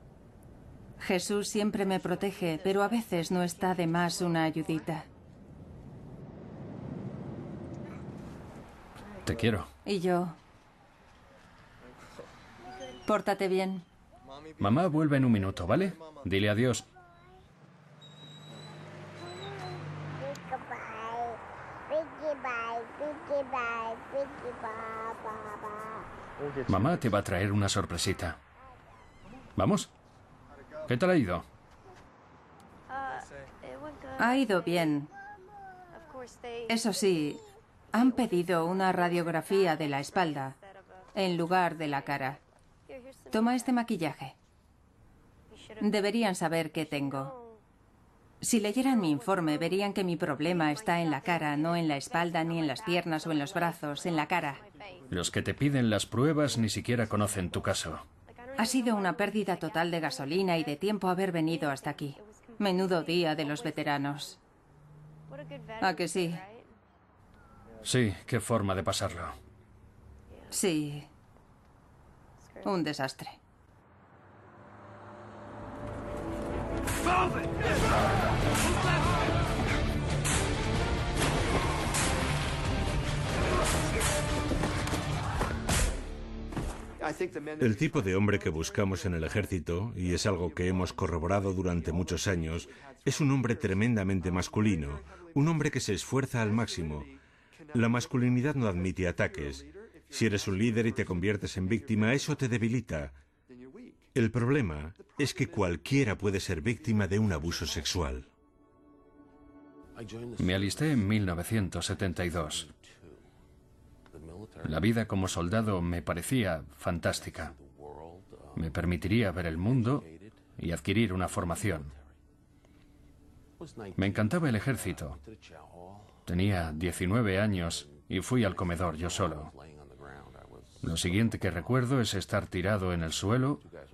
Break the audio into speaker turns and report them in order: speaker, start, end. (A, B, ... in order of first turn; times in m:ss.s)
0:01.0-0:05.1 A
0:09.2-0:09.7 B
0:09.8-0:10.4 A
0:13.1-0:13.8 A
0:14.6-0:16.9 B
0:26.7-0:28.4 B
0:29.6-0:29.9 B
0:30.9-0:31.4 B
0:34.2-0:35.1 A
0:36.7-0:40.6 A
0:41.2-0:42.4 A
0:43.3-0:44.4 A
0:45.8-0:47.4 A
0:48.4-0:54.6 A
0:55.1-0:58.0 B
0:58.6-1:04.4 A
1:05.8-1:06.5 A
1:07.8-1:09.4 B
1:10.5-1:11.1 A
1:12.6-1:13.4 A
1:27.6-1:37.1 C
1:37.7-1:43.1 C
1:44.2-1:48.3 C
1:50.4-1:52.7 B
1:54.6-1:57.5 B
1:58.6-2:00.1 B
2:00.6-2:01.9 B
2:04.0-2:05.2 B
2:06.3-2:09.5 B
2:10.8-2:13.6 B